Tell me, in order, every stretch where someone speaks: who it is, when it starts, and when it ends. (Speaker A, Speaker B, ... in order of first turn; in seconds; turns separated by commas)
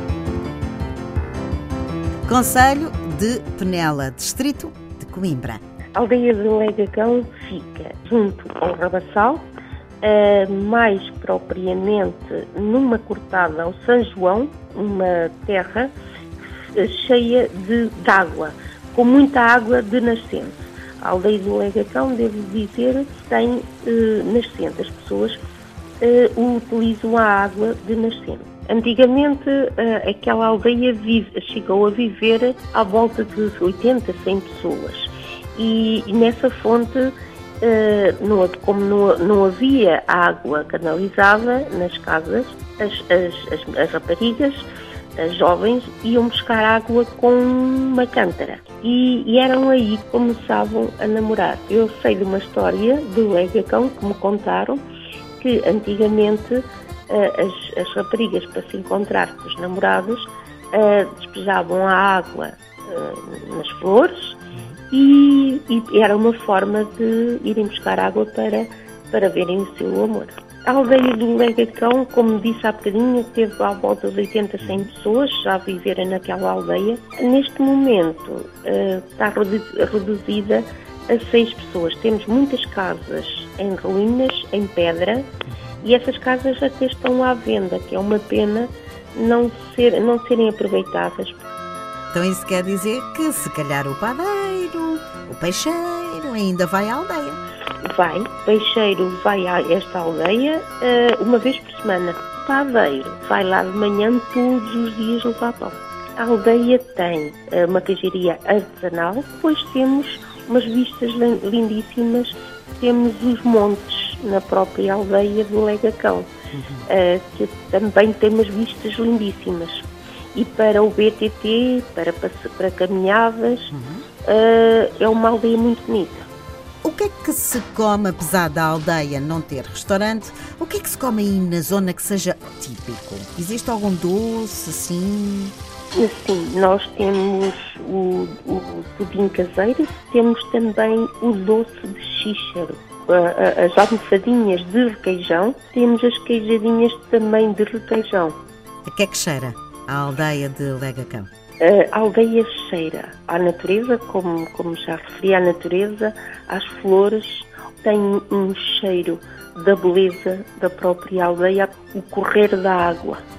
Speaker A: 2.3-5.6, Speaker B: 5.9-9.5, Speaker B: 10.0-15.9, Speaker B: 16.7-25.4, Speaker B: 26.0-54.8, Speaker B: 55.4-85.3, Speaker B: 85.8-91.4, Speaker A: 92.1-97.4, Speaker B: 97.8-126.3, Speaker A: 116.5-116.8, Speaker A: 123.7-124.0, Speaker A: 126.8-135.5, Speaker B: 135.9-148.3, Speaker A: 148.8-151.3, Speaker B: 151.6-163.2